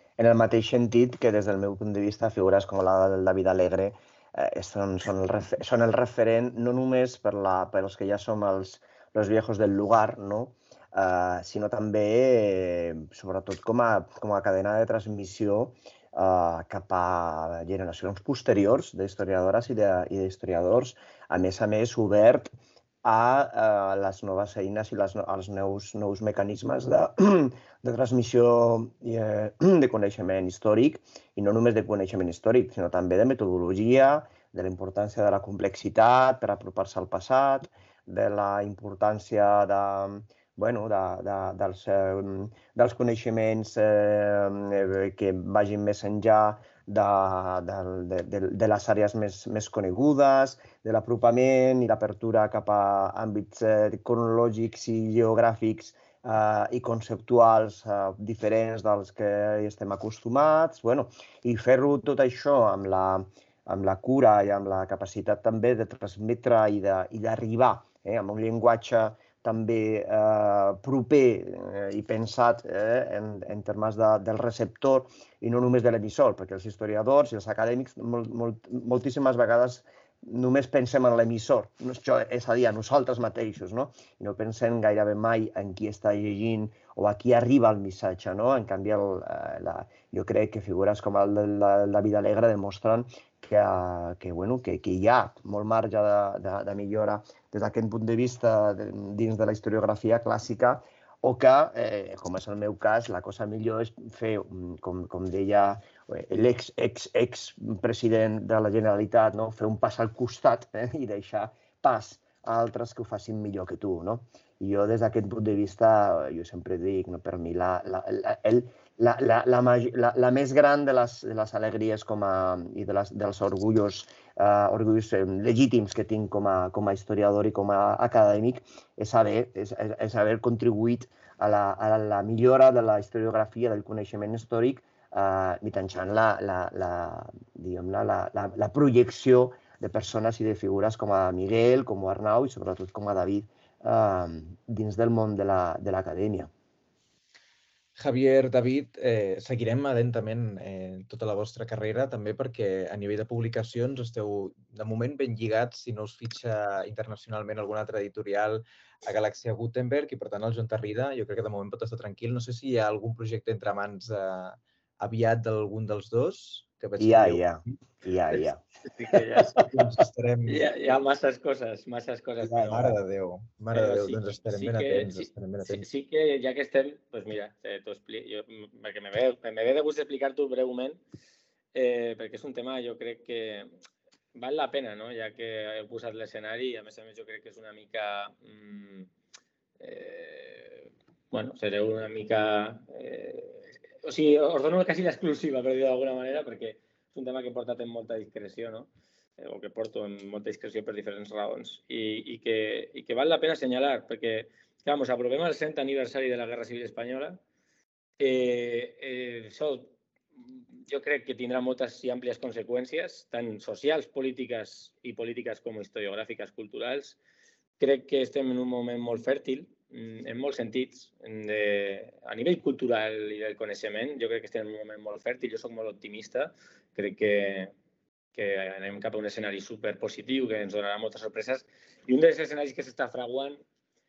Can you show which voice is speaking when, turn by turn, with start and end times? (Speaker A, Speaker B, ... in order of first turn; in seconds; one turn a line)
Speaker A: 0.2-146.5
Speaker B: 148.0-167.8
Speaker A: 167.0-169.2
Speaker C: 169.1-169.5
Speaker B: 169.5-170.7
Speaker C: 170.5-172.8
Speaker A: 172.4-172.9
Speaker B: 172.5-175.8
Speaker C: 173.7-181.0
Speaker C: 181.7-183.7
Speaker C: 184.3-189.1
Speaker C: 189.8-207.4
Speaker C: 208.2-209.9
Speaker C: 210.9-217.2
Speaker C: 217.8-227.7
Speaker C: 228.3-233.6